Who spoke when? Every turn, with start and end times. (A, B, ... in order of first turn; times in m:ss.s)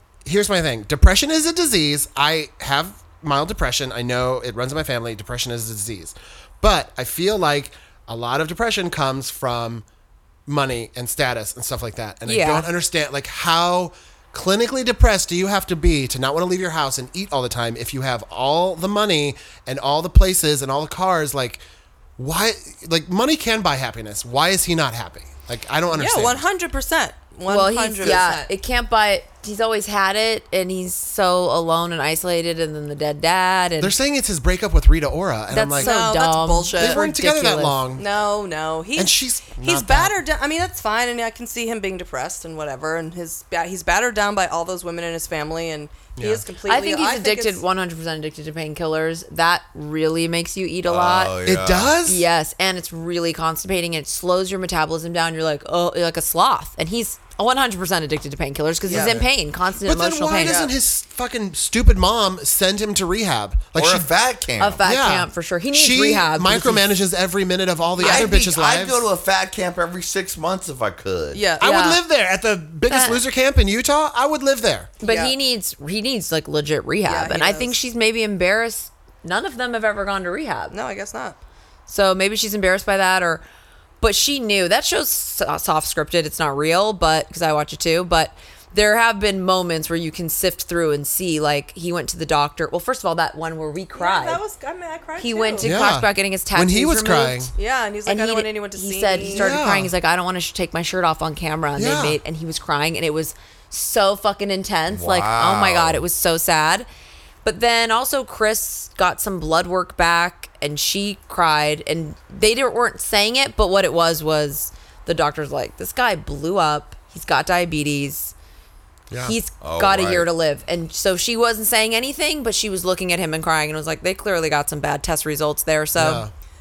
0:00.2-0:09.8 A
0:10.5-0:21.6 A
0:12.3-0:12.7 B
0:22.2-0:26.4 A
0:25.9-0:28.5 C
0:27.5-0:33.9 B
0:33.8-0:35.9 A
0:35.5-0:37.8 B
0:35.8-0:37.0 C
0:36.8-0:38.0 A
0:38.0-0:47.6 C
0:39.0-0:40.1 A
0:46.2-0:46.4 A
0:46.6-0:51.3 B
0:50.8-0:52.0 D
0:51.4-0:52.2 A
0:52.0-1:00.6 B
0:58.9-0:59.2 C
0:58.9-0:59.3 A
0:59.8-1:04.1 A
1:00.4-1:00.7 C
1:03.8-1:04.9 D
1:04.6-1:06.9 B
1:04.8-1:09.0 A
1:08.0-1:08.3 C
1:08.0-1:11.4 D
1:11.3-1:11.7 C
1:11.6-1:14.9 A
1:11.6-1:12.0 B
1:12.9-1:13.2 B
1:15.0-1:20.7 B
1:15.0-1:15.3 C
1:17.0-1:17.8 C
1:20.7-1:21.4 C
1:21.9-1:23.4 B
1:24.0-1:34.4 B
1:33.9-1:35.7 C
1:35.2-1:37.5 B
1:35.6-1:37.5 A
1:37.6-1:39.5 C
1:38.0-1:46.9 B
1:39.3-1:39.9 A
1:41.8-1:42.2 A
1:44.9-1:46.0 D
1:47.4-1:58.3 B
1:59.1-1:59.3 A
1:59.2-2:06.2 B
1:59.6-2:00.3 D
2:06.0-2:06.3 A